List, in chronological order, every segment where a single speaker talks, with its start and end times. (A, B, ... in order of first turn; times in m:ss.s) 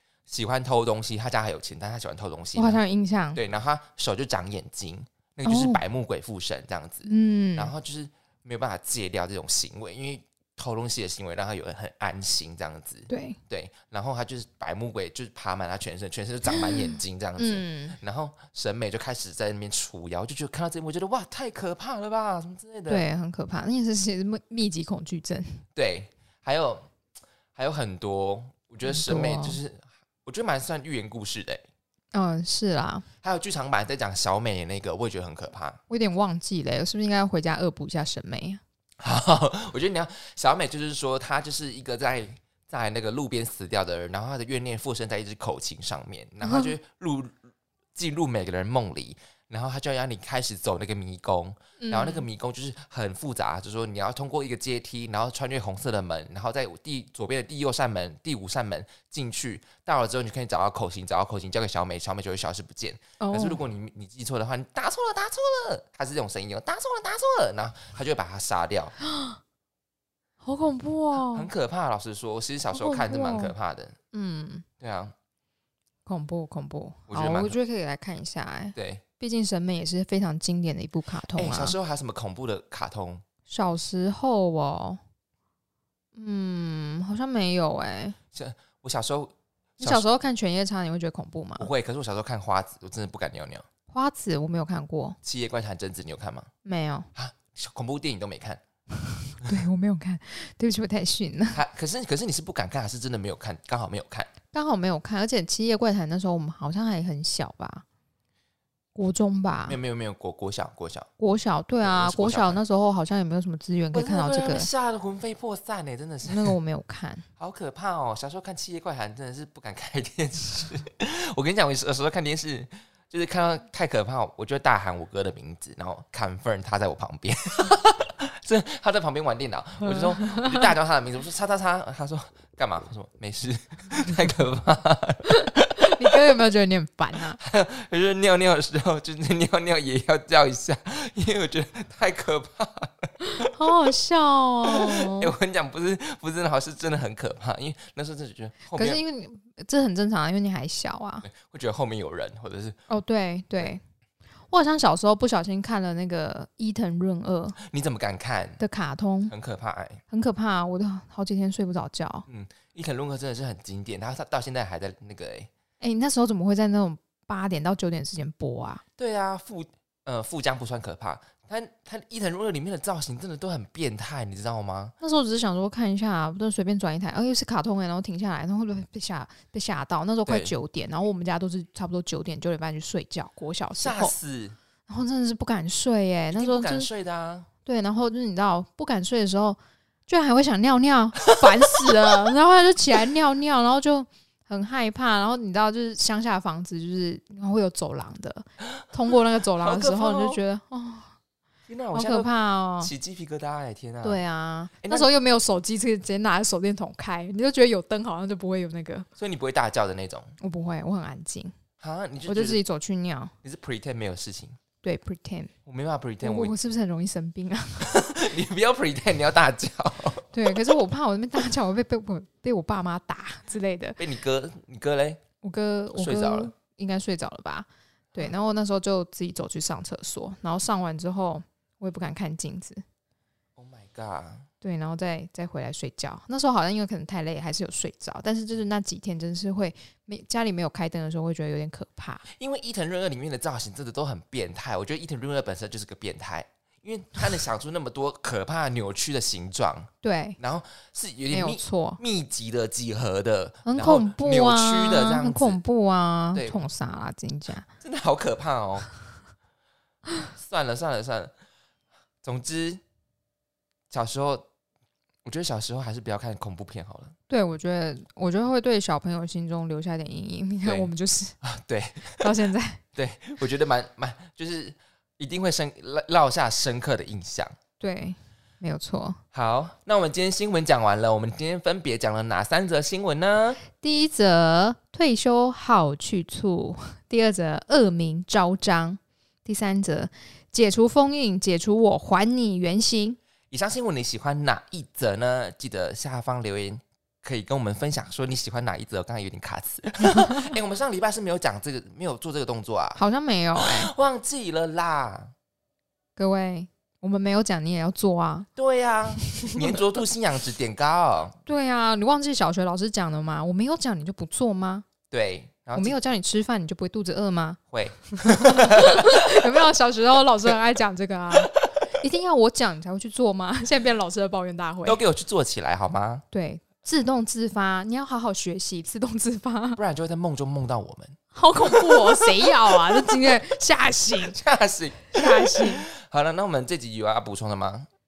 0:00.3-0:02.8 A
0:02.6-0:03.4 B
0:03.4-0:23.0 A
0:05.4-0:05.8 B
0:07.0-0:07.7 B
0:13.1-0:13.4 B
0:16.5-0:16.8 B
0:17.4-0:18.0 B
0:22.9-0:25.6 B
0:25.8-0:26.9 A
0:27.6-0:31.6 A
0:28.8-0:29.6 B
0:32.1-0:33.1 B
0:33.2-0:35.8 A
0:35.9-0:38.6 B
0:39.0-0:47.4 A
0:46.4-0:46.7 B
0:48.0-1:09.0 A
0:51.8-0:52.3 B
1:03.2-1:03.6 B
1:09.0-1:09.4 B
1:10.4-1:11.5 B
1:11.3-1:14.0 A
1:12.7-1:13.5 B
1:14.1-1:14.6 B
1:14.8-1:15.1 A
1:16.1-1:21.8 B
1:17.1-1:17.6 A
1:18.8-1:19.0 A
1:21.4-1:23.2 A
1:23.5-1:25.0 B
1:26.2-1:28.2 B
1:28.3-1:30.0 A
1:29.8-1:31.7 B
1:31.6-1:33.6 A
1:33.9-1:35.2 B
1:35.2-1:36.5 A
1:36.6-1:37.1 B
1:37.2-1:38.6 A
1:39.0-1:41.6 B
1:41.5-1:44.3 A
1:44.5-1:47.8 B
1:49.0-1:49.8 B
1:49.7-1:51.1 A
1:51.2-1:54.7 B
1:51.8-1:52.6 A
1:53.9-1:56.5 A
1:56.2-1:57.3 B
1:57.4-2:16.2 A
2:09.8-2:10.7 B
2:15.8-2:17.4 B
2:17.4-2:23.7 A
2:23.2-2:25.4 B
2:24.7-2:29.0 A
2:28.7-2:31.3 B
2:31.2-2:32.8 A
2:32.9-2:33.8 B
2:34.5-2:37.6 B
2:37.6-2:38.6 A
2:38.6-2:39.3 B
2:39.3-2:40.0 A
2:40.1-2:42.3 B
2:42.3-2:45.5 A
2:45.8-2:48.8 B
2:49.0-2:54.9 A
2:55.0-3:04.1 B
3:00.3-3:00.5 A
3:03.8-3:04.6 A
3:04.9-3:06.9 B
3:06.3-3:07.5 A
3:07.7-3:21.1 B
3:11.3-3:11.9 A
3:19.6-3:20.4 A
3:21.7-3:22.3 A
3:21.9-3:22.9 B
3:22.8-3:24.2 A
3:24.0-3:29.1 B
3:24.8-3:25.1 A
3:29.2-3:30.3 A
3:30.4-3:31.5 B
3:31.8-3:32.6 A
3:32.3-3:33.3 B
3:33.4-3:34.6 A
3:34.8-3:35.5 B
3:35.6-3:36.5 A
3:36.2-3:38.0 B
3:37.8-3:40.3 A
3:40.3-3:44.0 B
3:44.0-3:45.2 A
3:45.4-3:52.8 B
3:45.9-3:46.5 A
3:53.6-3:54.5 A
3:54.6-4:02.2 B
4:02.3-4:15.6 A
4:10.0-4:10.4 B
4:11.3-4:12.0 B
4:13.7-4:17.7 B
4:17.8-4:18.9 A
4:20.3-4:21.3 A
4:22.2-4:22.8 A
4:23.9-4:24.5 A
4:25.2-4:27.2 A
4:27.3-4:31.4 B
4:30.6-4:30.9 A
4:31.4-4:32.3 A
4:32.2-4:32.8 B
4:33.0-4:37.6 A
4:37.8-4:39.2 B
4:39.3-4:43.6 A
4:43.8-4:53.2 B
4:53.5-5:03.0 A
5:00.2-5:00.5 B
5:03.0-5:03.9 B
5:03.6-5:05.3 A
5:06.2-5:08.5 B
5:08.6-5:11.4 A
5:09.2-5:09.8 B
5:11.5-5:14.9 B
5:15.1-5:16.0 A
5:15.7-5:17.6 B
5:17.7-5:19.4 A
5:18.2-5:25.0 B
5:21.4-5:21.8 A
5:24.8-5:26.2 A
5:26.3-5:29.8 B
5:29.8-5:32.6 A
5:31.3-5:34.4 B
5:34.3-5:37.9 A
5:35.1-5:35.9 B